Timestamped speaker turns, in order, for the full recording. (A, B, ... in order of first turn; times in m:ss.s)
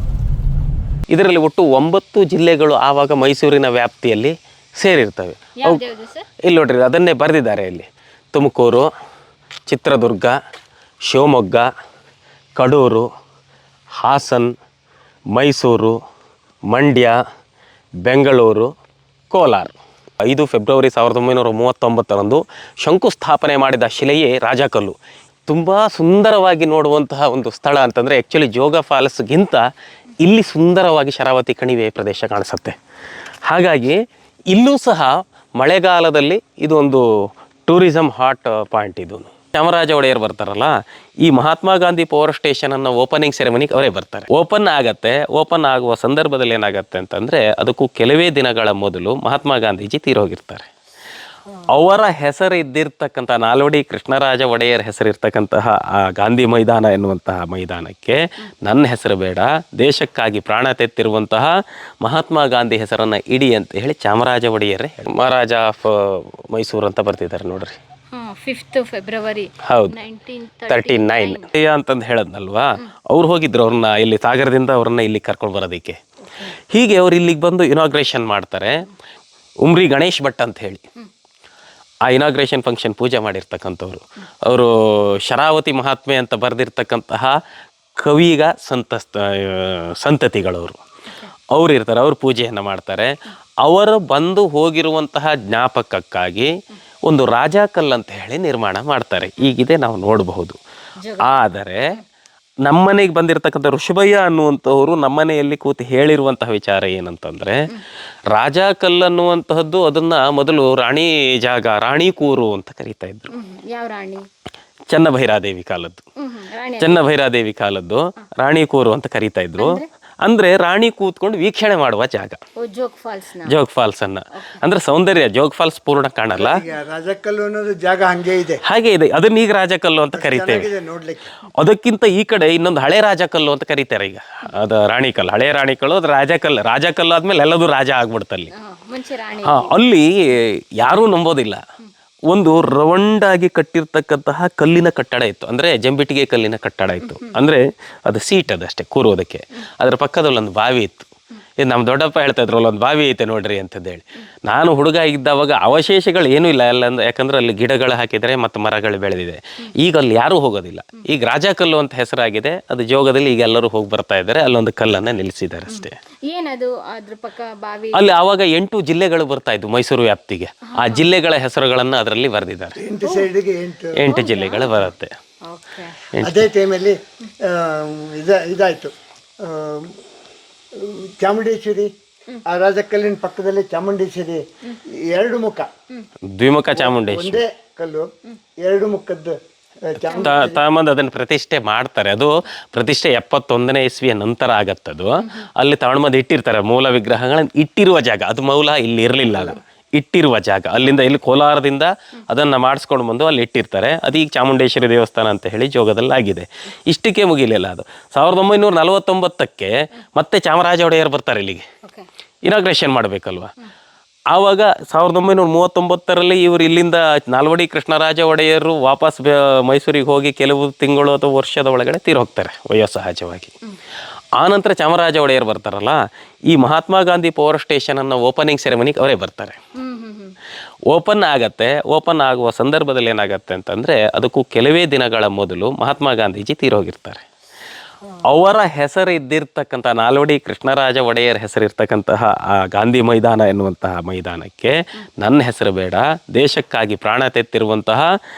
0:01.1-0:05.8 A
0:05.6-0:06.2 B
0:06.4-0:08.9 A
0:09.7-0:10.3 A
0:11.1-0:11.7 A
0:12.6-0:13.1 A
0:14.0-0:14.5 A
0:15.3-0:16.0 A
0:16.7-0:17.2 A
0:18.0-0:18.7 A
0:19.3-0:24.9 A
0:25.5-0:29.6 A
0:30.2-0:32.7 A
0:33.5-0:37.0 A
0:37.6-0:50.7 A
0:51.7-1:07.8 A
1:08.1-1:11.5 B
1:09.6-1:10.0 A
1:10.7-1:16.0 A
1:16.7-1:18.8 A
1:19.6-1:20.8 A
1:22.0-1:27.4 A
1:28.0-1:30.8 A
1:31.5-1:36.5 A
1:37.0-1:40.6 A
1:41.0-1:41.5 B
1:41.2-1:41.9 A
1:42.6-1:47.6 A
1:48.3-1:53.3 A
1:53.3-1:54.2 B
1:54.9-1:56.0 A
1:56.2-1:57.0 B
1:56.8-2:02.4 A
1:59.6-1:59.8 B
2:02.6-2:03.5 B
2:03.4-2:06.6 A
2:06.4-2:08.6 C
2:08.6-2:10.7 A
2:10.1-2:11.3 C
2:11.5-2:18.5 A
2:18.5-2:19.8 B
2:19.4-2:21.6 A
2:22.3-2:31.1 A
2:27.0-2:27.4 B
2:31.6-2:46.0 A
2:45.7-2:48.2 B
2:47.9-2:52.8 A
2:50.6-2:51.1 B
2:52.8-2:54.1 C
2:53.0-2:53.3 B
2:54.0-2:55.1 A
2:54.1-2:54.8 B
2:55.4-2:56.0 B
2:56.1-2:56.5 A
2:56.2-2:59.9 C
3:00.8-3:01.9 C
3:02.4-3:05.7 C
3:06.2-3:07.4 A
3:06.7-3:08.1 C
3:08.6-3:10.6 C
3:10.1-3:10.4 B
3:10.1-3:31.6 A
3:32.4-3:33.5 A
3:34.3-3:43.5 A
3:44.4-3:49.6 A
3:49.8-3:50.3 B
3:50.9-3:57.2 A
3:58.3-4:08.1 A